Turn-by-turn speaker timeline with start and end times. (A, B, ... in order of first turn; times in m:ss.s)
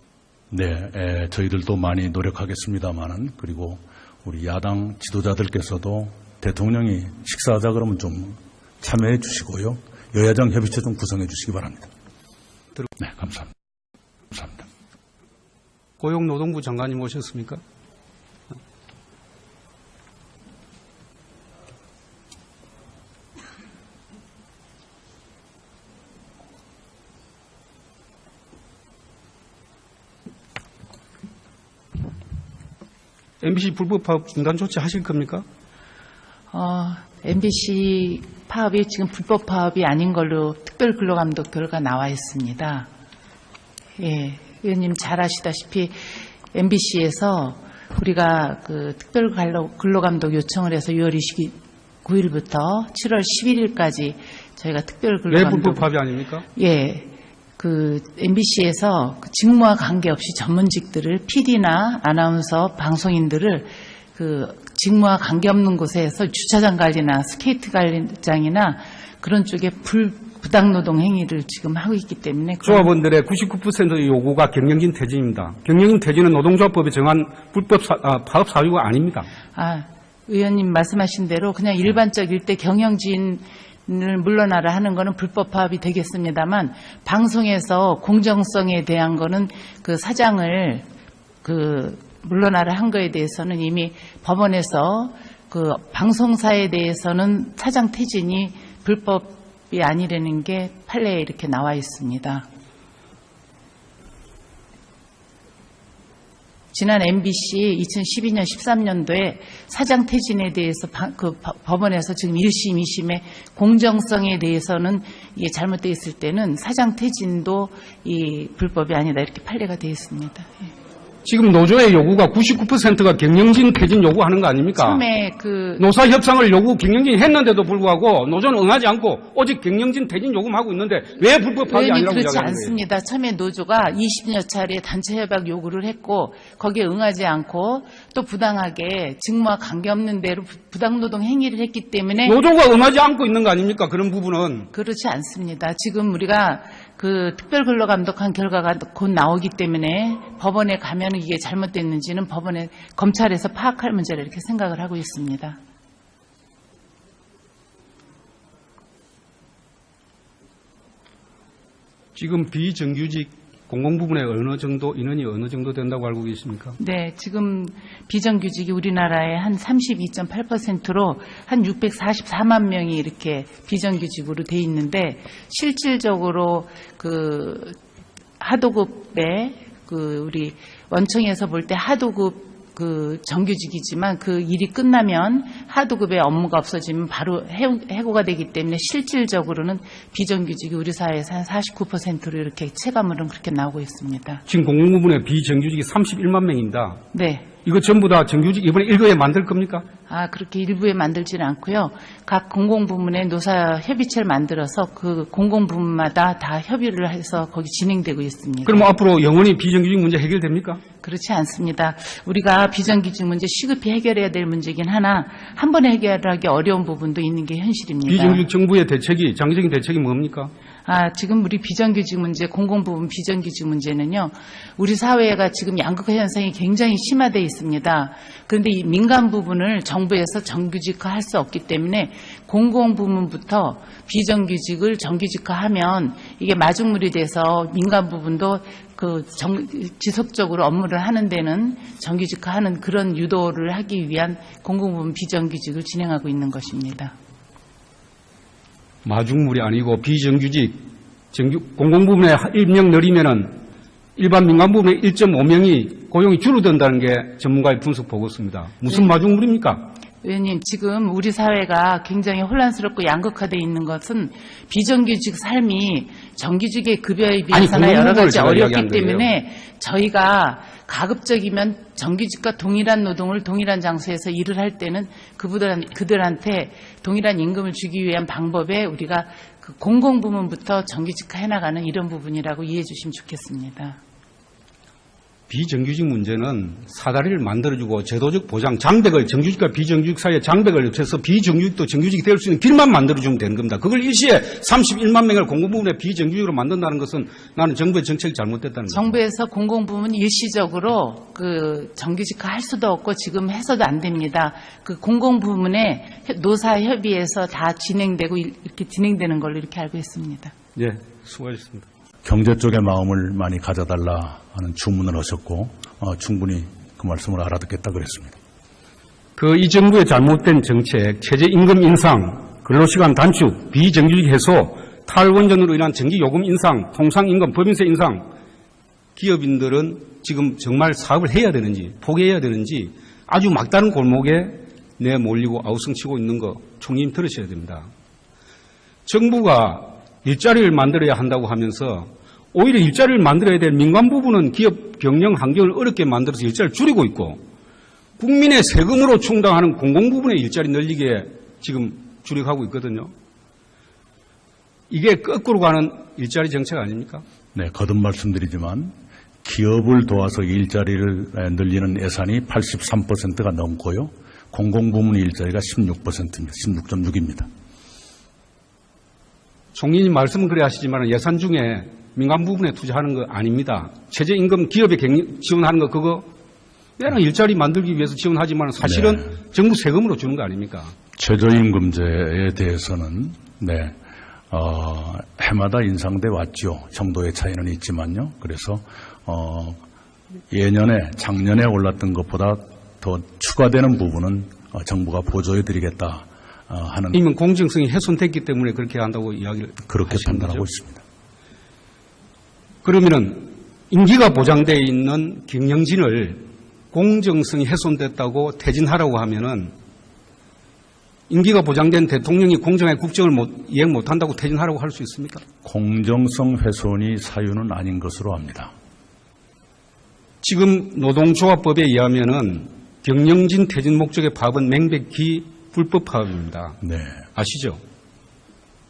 0:00.5-0:11.9 A
0:13.0-0:13.5 A
0:14.3-0:14.6 A
0:16.0-0:17.6 B
0:33.4-0:35.4 B
0:36.5-0:42.9 C
0:44.0-0:55.9 C
0:55.3-0:56.4 B
0:56.6-1:12.9 C
1:12.6-1:19.3 B
1:19.6-1:30.9 C
1:31.4-1:42.5 C
1:46.7-2:00.7 C
2:01.2-2:05.0 B
2:04.8-2:05.8 C
2:05.8-2:12.8 B
2:11.6-2:22.4 C
2:22.2-2:24.7 B
2:24.7-2:35.6 C
2:42.2-2:46.8 B
2:46.8-2:57.8 C
2:58.4-3:14.4 C
3:14.5-3:17.0 B
3:17.1-3:17.5 C
3:17.6-3:19.8 B
3:20.1-3:28.9 C
3:28.6-3:30.8 B
3:31.0-3:38.4 C
3:38.1-3:40.5 B
3:40.9-4:07.1 C
4:09.0-4:13.6 B
4:14.2-4:19.9 B
4:20.2-4:44.0 C
4:27.5-4:29.3 B
4:45.5-4:59.2 B
4:58.9-5:10.5 C
5:10.8-5:11.9 B
5:12.2-5:18.4 A
5:19.4-5:28.3 B
5:29.2-5:37.9 B
5:39.1-5:47.4 B
5:48.2-5:53.1 B
5:54.9-5:57.2 B
5:57.5-5:58.9 A
5:59.4-6:07.5 A
6:09.8-6:16.3 B
6:17.0-6:20.9 B
6:18.8-6:19.3 A
6:21.2-6:24.0 A
6:24.5-6:29.8 A
6:30.5-6:37.2 A
6:37.1-6:40.7 B
6:39.9-6:41.0 A
6:42.8-6:49.7 B
6:51.3-6:55.4 B
6:55.6-6:58.7 A
7:00.4-7:06.8 B
7:06.8-7:07.3 A
7:07.4-7:07.8 B